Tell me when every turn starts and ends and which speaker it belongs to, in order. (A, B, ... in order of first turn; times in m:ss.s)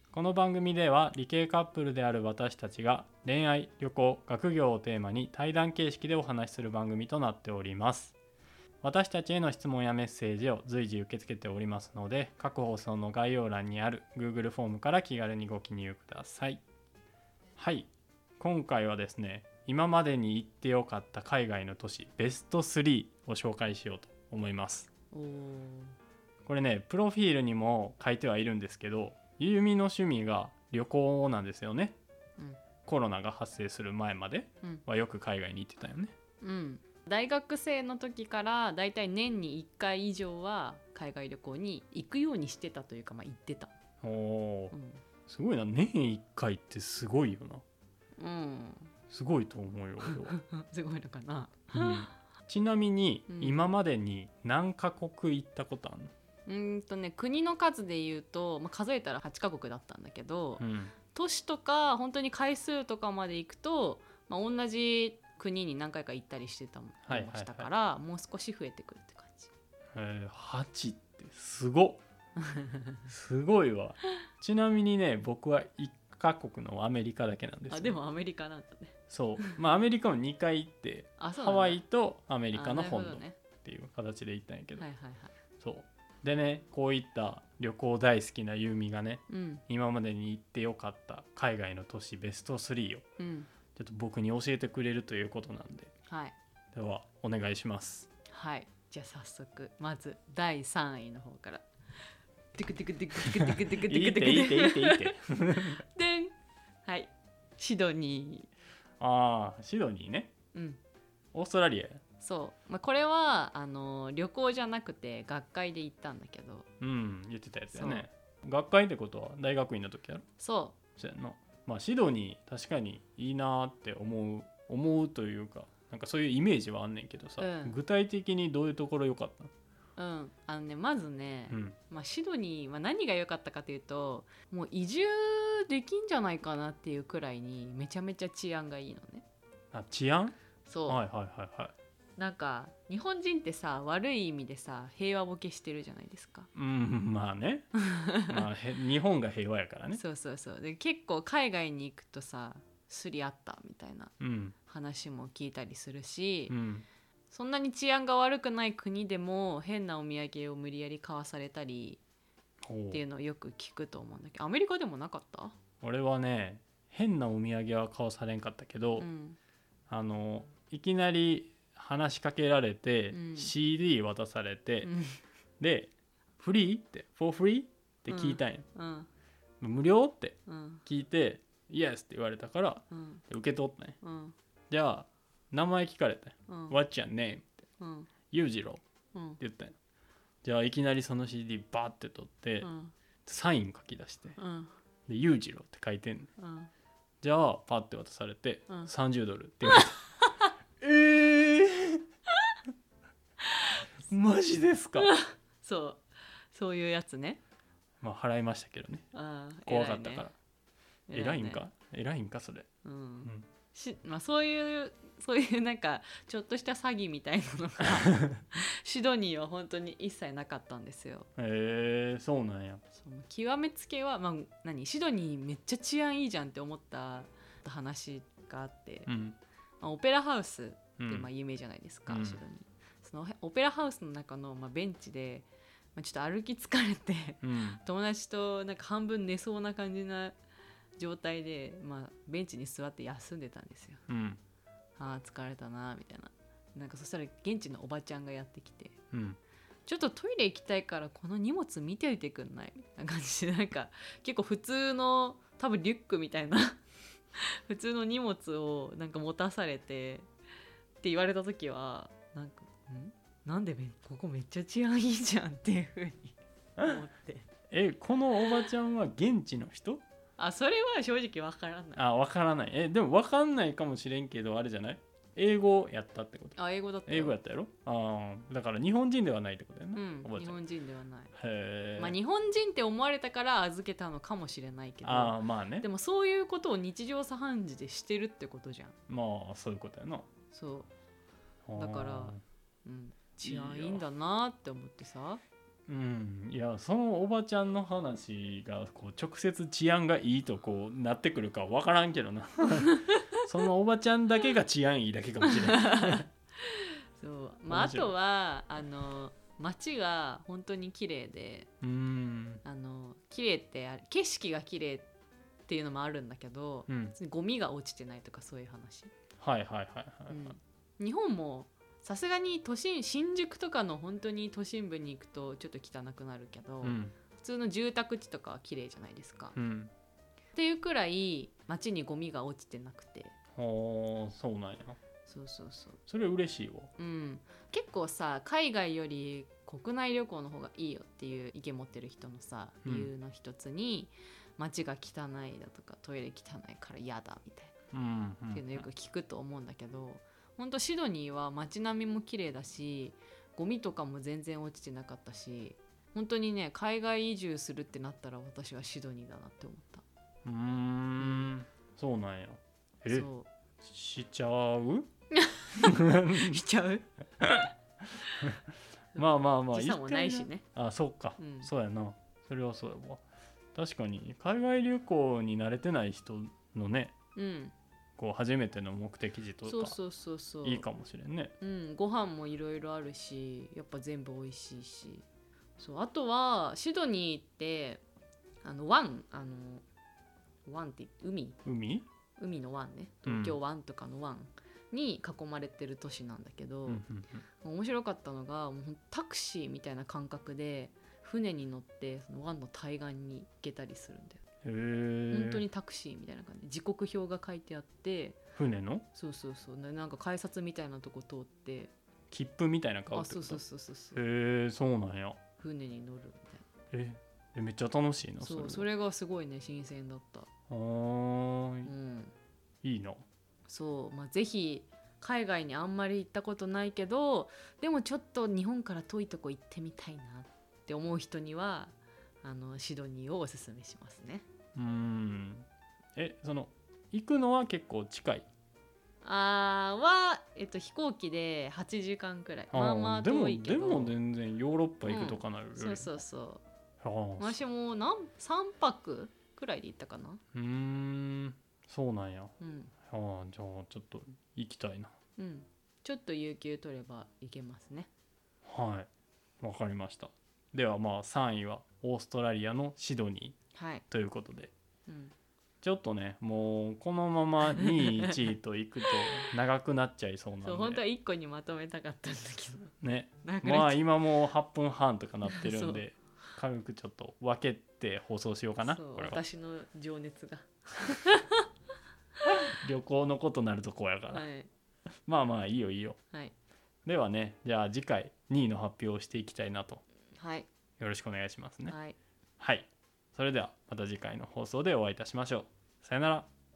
0:00.1-0:08.2 A
0:08.8-0:16.6 A
0:17.6-0:24.9 A
0:25.1-0:26.0 B
0:26.5-0:32.0 A
0:32.8-0:36.1 A
0:36.4-0:43.7 B
0:44.0-0:44.7 A
0:44.7-0:45.0 B
0:45.3-0:47.6 A
0:48.2-0:48.9 B
0:49.1-0:50.4 A
0:50.0-0:52.1 B
0:51.7-0:56.1 A
0:53.3-0:53.6 B
0:56.5-1:09.5 B
1:00.6-1:00.9 A
1:07.1-1:07.7 A
1:10.0-1:12.0 A
1:12.4-1:12.9 B
1:13.1-1:18.0 A
1:17.7-1:19.6 B
1:19.1-1:24.9 A
1:21.2-1:21.8 B
1:22.5-1:23.4 B
1:24.8-1:25.4 B
1:25.6-1:33.0 A
1:29.3-1:29.6 B
1:33.2-1:33.5 B
1:33.8-1:35.9 A
1:36.1-1:36.4 B
1:36.7-1:38.1 A
1:38.3-1:41.7 B
1:42.5-1:46.3 B
1:43.7-1:45.8 A
1:46.8-1:48.5 B
1:49.0-1:50.3 A
1:50.5-1:50.8 B
1:51.3-1:52.0 A
1:52.2-1:56.7 B
1:56.8-2:00.2 A
1:57.7-1:58.1 B
2:00.4-2:00.8 B
2:01.0-2:09.5 A
2:07.4-2:07.8 B
2:10.0-2:19.2 B
2:11.5-2:11.8 A
2:19.7-2:21.7 A
2:20.7-2:21.0 B
2:22.2-2:26.5 B
2:26.5-2:27.7 A
2:27.8-2:28.3 B
2:28.2-2:30.0 A
2:29.9-2:34.1 B
2:34.2-2:34.6 A
2:34.7-2:36.6 B
2:36.5-2:36.9 A
2:37.3-2:42.0 B
2:42.6-2:43.0 A
2:42.9-2:45.6 B
2:45.8-2:49.1 A
2:49.0-2:49.4 B
2:49.9-2:54.9 A
2:53.1-2:53.5 B
2:54.8-2:55.2 B
2:55.6-2:58.7 A
2:58.1-2:59.1 B
2:59.6-3:04.0 A
3:00.5-3:00.8 B
3:02.9-3:03.2 B
3:04.0-3:04.4 B
3:04.7-3:07.5 A
3:06.5-3:06.8 B
3:07.8-3:08.1 B
3:08.3-3:08.8 A
3:09.1-3:09.4 B
3:09.4-3:09.8 A
3:10.4-3:12.7 A
3:12.6-3:12.9 B
3:13.3-3:14.4 A
3:14.4-3:14.7 B
3:15.1-3:16.3 A
3:16.4-3:16.7 B
3:17.2-3:20.0 A
3:20.8-3:22.0 A
3:24.1-3:25.1 A
3:25.0-3:27.4 B
3:28.0-3:29.1 A
3:29.1-3:30.3 B
3:29.7-3:30.4 A
3:31.1-3:31.6 B
3:31.1-3:32.7 A
3:32.8-3:41.3 B
3:41.4-3:42.8 A
3:43.0-3:49.1 B
3:49.1-3:49.4 A
3:49.8-4:00.4 B
3:51.0-3:51.3 A
3:52.1-3:52.4 A
3:57.4-3:57.8 A
4:01.0-4:04.0 B
4:04.1-4:04.4 A
4:05.0-4:09.0 B
4:09.1-4:09.4 A
4:09.9-4:16.8 B
4:17.4-4:20.3 B
4:21.0-4:27.5 B
4:27.7-4:30.0 A
4:30.4-4:32.0 B
4:32.0-4:40.6 A
4:36.6-4:37.4 B
4:39.9-4:41.3 B
4:41.3-4:42.2 A
4:42.0-4:49.0 B
4:45.0-4:45.9 A
4:49.1-4:50.3 A
4:50.5-4:50.9 B
4:51.7-4:52.4 A
4:51.8-4:55.4 B
4:53.4-4:54.0 A
4:55.9-5:06.3 A
5:05.4-5:11.7 B
5:07.7-5:08.1 A
5:11.8-5:12.6 A
5:12.6-5:15.1 B
5:15.7-5:19.1 B
5:16.9-5:17.2 A
5:19.4-5:20.5 A
5:20.3-5:29.6 B
5:26.8-5:27.1 A
5:29.6-5:29.9 A
5:30.5-5:33.3 B
5:33.6-5:35.0 A
5:35.3-5:36.0 B
5:36.1-5:36.9 A
5:37.0-5:47.7 B
5:42.8-5:43.1 A
5:47.9-5:48.9 A
5:48.5-6:00.0 B
6:00.4-6:03.3 A
6:01.2-6:01.5 B
6:03.1-6:03.5 B
6:03.8-6:05.1 A
6:05.3-6:07.1 B
6:05.8-6:06.6 A
6:07.4-6:07.7 A
6:09.2-6:10.6 B
6:09.2-6:17.1 A
6:11.4-6:11.7 B
6:17.4-6:17.7 B
6:18.2-6:20.0 A
6:19.6-6:20.8 B
6:20.6-6:21.5 A
6:21.6-6:25.2 B
6:25.8-6:28.0 B
6:28.6-6:29.8 B
6:30.6-6:31.6 B
6:31.6-6:32.1 A
6:32.4-6:37.0 B
6:33.3-6:33.6 A
6:36.9-6:37.4 A
6:37.6-6:44.4 B
6:44.6-6:45.6 A
6:45.3-6:48.4 B
6:48.6-6:49.0 A
6:49.1-6:51.9 B
6:52.3-6:53.6 A
6:53.1-6:54.2 B
6:54.2-6:55.4 A
6:55.6-6:56.7 B
6:56.9-6:58.9 A
6:58.4-7:00.5 B
7:00.7-7:01.9 A
7:01.8-7:02.3 B
7:02.8-7:03.2 A
7:03.7-7:14.4 B
7:14.8-7:18.5 A
7:19.2-7:24.2 B
7:22.7-7:26.2 A
7:25.1-7:26.6 B
7:27.0-7:27.6 A
7:27.4-7:30.4 B
7:30.5-7:32.5 A
7:32.6-7:32.9 B
7:33.1-7:35.1 A
7:35.4-7:38.1 B
7:38.6-7:39.1 A
7:39.6-7:43.6 A
7:43.7-7:44.0 B
7:44.1-7:44.7 A
7:45.1-7:45.3 B
7:45.8-7:51.0 A
7:47.8-7:48.4 B
7:50.6-7:54.0 B
7:53.0-7:59.4 A
7:55.5-7:56.0 B
7:58.8-8:01.6 B
8:02.7-8:04.5 A
8:04.3-8:04.7 B
8:05.3-8:06.2 A
8:07.0-8:10.0 A
8:10.4-8:10.7 B
8:11.0-8:12.0 A
8:11.9-8:12.2 B
8:12.6-8:16.5 A